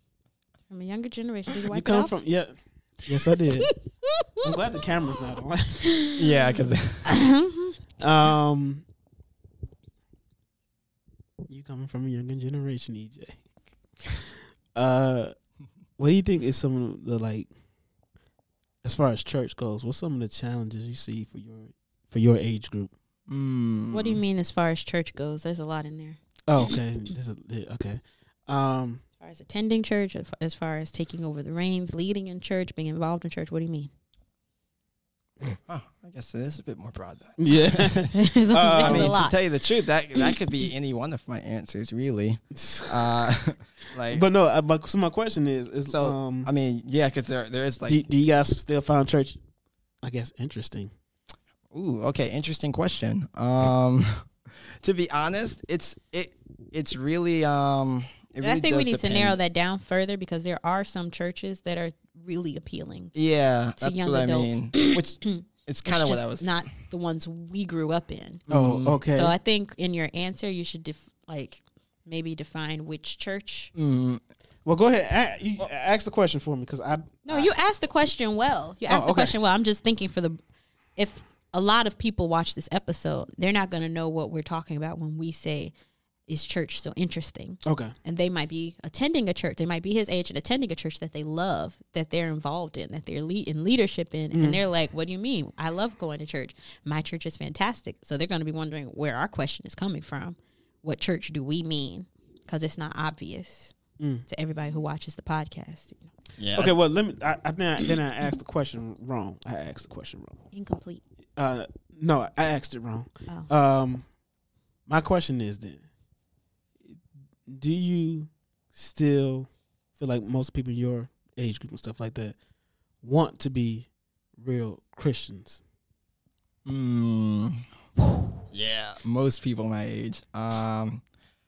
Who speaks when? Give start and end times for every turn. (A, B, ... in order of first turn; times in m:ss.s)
0:00.7-0:02.1 A
0:01.7-0:03.7 B
0:03.7-0:04.5 A
0:04.4-0:05.9 B
0:05.9-0:07.8 A
0:06.2-0:07.1 C
0:08.0-0:08.8 B
0:11.5-0:13.4 B
0:14.0-0:15.3 B
0:16.0-0:17.5 B
0:18.8-0:22.9 B
0:23.3-0:24.2 C
0:23.9-0:26.2 A
0:26.5-0:29.0 B
0:29.2-0:33.9 A
0:35.7-0:38.0 C
0:37.4-0:39.2 B
0:38.1-0:39.4 A
0:38.7-0:44.2 C
0:42.5-0:43.2 B
0:44.1-0:46.5 B
0:45.9-0:48.0 C
0:47.9-0:49.4 B
0:50.0-0:50.9 B
0:51.7-0:54.3 C
0:54.8-0:59.4 C
0:58.4-1:03.1 A
1:03.1-1:06.5 C
1:03.8-1:08.4 A
1:08.5-1:09.0 C
1:08.5-1:09.3 B
1:09.1-1:13.7 A
1:13.7-1:14.2 C
1:14.6-1:17.5 B
1:17.2-1:20.4 A
1:18.9-1:19.4 B
1:21.0-1:25.7 A
1:26.3-1:43.7 A
1:27.6-1:27.9 B
1:34.3-1:34.6 B
1:44.0-1:44.2 B
1:44.3-1:46.1 A
1:46.4-1:46.7 C
1:46.6-1:50.4 B
1:50.5-1:51.0 A
1:51.4-1:54.1 B
1:54.9-1:55.8 B
1:56.9-2:02.4 B
2:03.0-2:05.6 B
2:06.6-2:07.6 C
2:08.5-2:11.0 C